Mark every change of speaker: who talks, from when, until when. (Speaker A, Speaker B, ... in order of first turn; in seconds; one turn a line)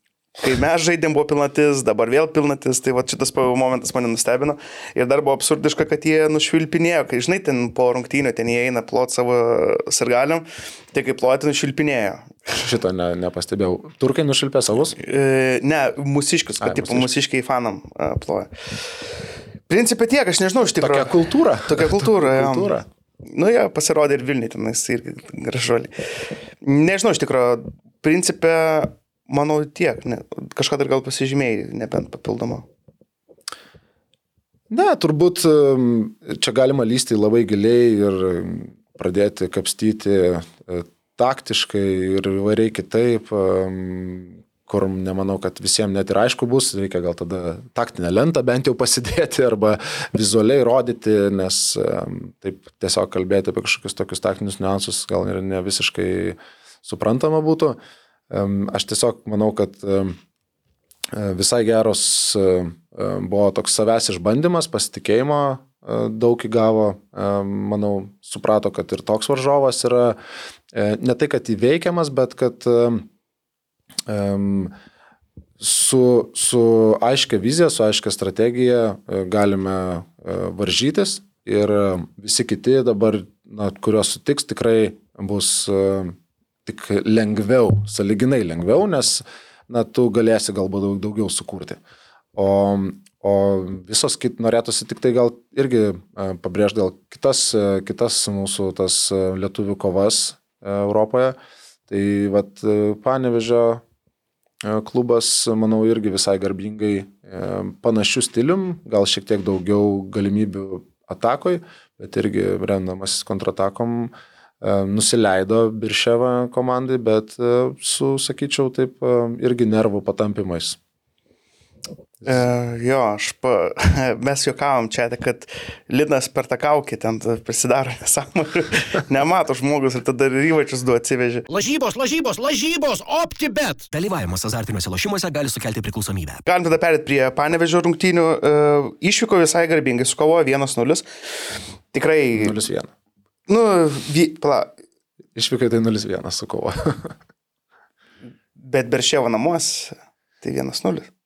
Speaker A: 0.4-12.5
Speaker B: 12.5-14.9
Speaker A: 15.0-18.5
Speaker B: 16.6-17.1
Speaker A: 19.7-21.1
Speaker B: 20.7-22.9
Speaker A: 21.6-25.9
Speaker A: 26.6-32.7
Speaker B: 34.7-57.8
Speaker B: 58.3-60.2
Speaker B: 61.1-70.2
Speaker B: 70.7-73.1
Speaker B: 74.1-74.7
Speaker B: 75.6-91.8
Speaker B: 92.3-101.4
Speaker B: 101.9-103.8
Speaker B: 104.6-120.8
Speaker A: 122.2-131.4
Speaker C: 131.5-133.9
Speaker D: 133.9-136.4
Speaker A: 136.4-141.1
Speaker A: 141.9-142.6
Speaker B: 142.3-142.9
Speaker A: 143.5-144.7
Speaker B: 145.3-147.2
Speaker A: 148.6-151.1